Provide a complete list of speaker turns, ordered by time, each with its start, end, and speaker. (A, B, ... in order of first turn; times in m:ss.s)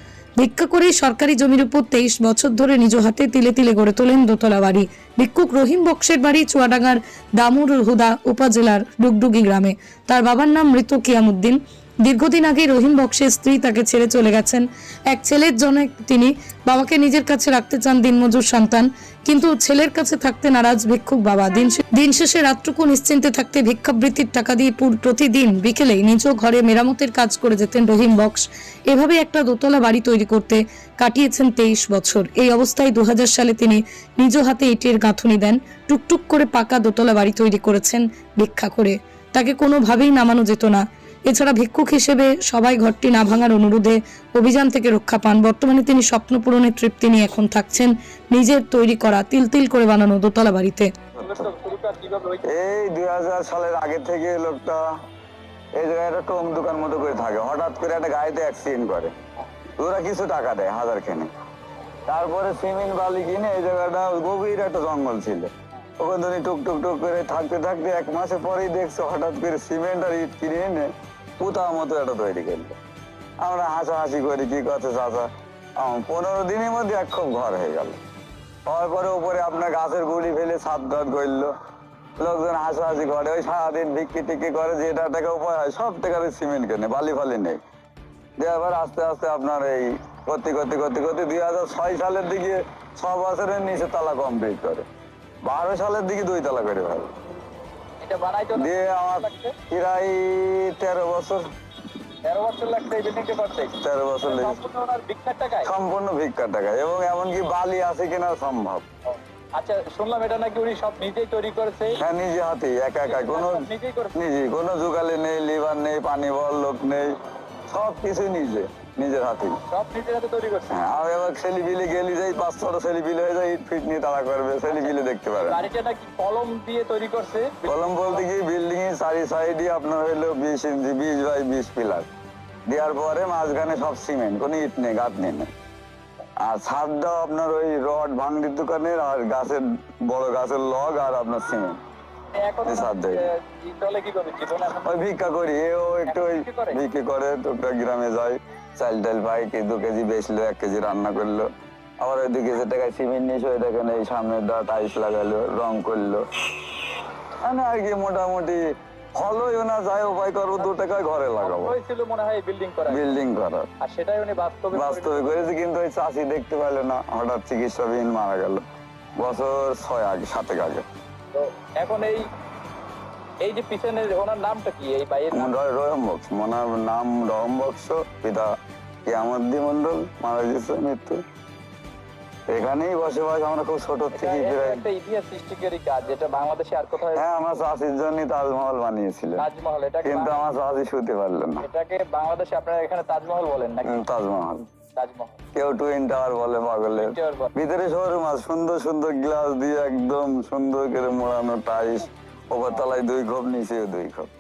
0:00.4-0:50.9 A
0:51.2-0:51.5 B
0:51.2-0:52.4 C
0:52.5-0:54.8 B
0:55.8-0:59.1 B
0:59.8-1:01.3 B
1:02.1-1:12.8 B
1:13.4-1:18.0 B
1:18.7-1:21.5 B
1:22.2-1:27.6 B
1:28.4-1:34.9 B
1:35.4-1:37.1 B
1:38.0-1:39.6 C
1:38.6-1:41.4 B
1:42.2-1:45.7 C
1:43.8-1:44.6 B
1:45.6-1:48.8 B
1:49.1-1:52.0 C
1:52.0-1:57.1 B
1:53.1-1:54.1 C
1:57.7-1:59.6 B
1:59.7-2:00.8 C
2:00.7-2:05.6 B
2:04.7-2:08.2 C
2:07.6-2:12.1 B
2:12.7-2:15.5 B
2:16.4-2:21.8 B
2:22.4-2:24.9 C
2:22.6-2:23.2 B
2:24.8-2:31.5 B
2:26.1-2:26.8 C
2:32.0-2:36.2 B
2:37.4-2:38.6 B
2:39.2-2:41.8 B
2:40.6-2:43.1 C
2:42.9-2:43.7 B
2:43.8-2:45.4 C
2:44.7-2:48.6 B
2:49.2-2:50.9 B
2:51.3-2:52.3 C
2:53.4-2:55.5 C
2:55.3-2:58.5 B
2:59.1-3:01.2 B
3:02.5-3:04.8 B
3:04.1-3:07.5 C
3:07.1-3:09.5 B
3:09.4-3:10.4 C
3:10.0-3:11.7 B
3:11.6-3:14.0 C
3:13.8-3:14.6 B
3:15.0-3:15.4 C
3:15.6-3:24.3 B
3:17.0-3:17.5 C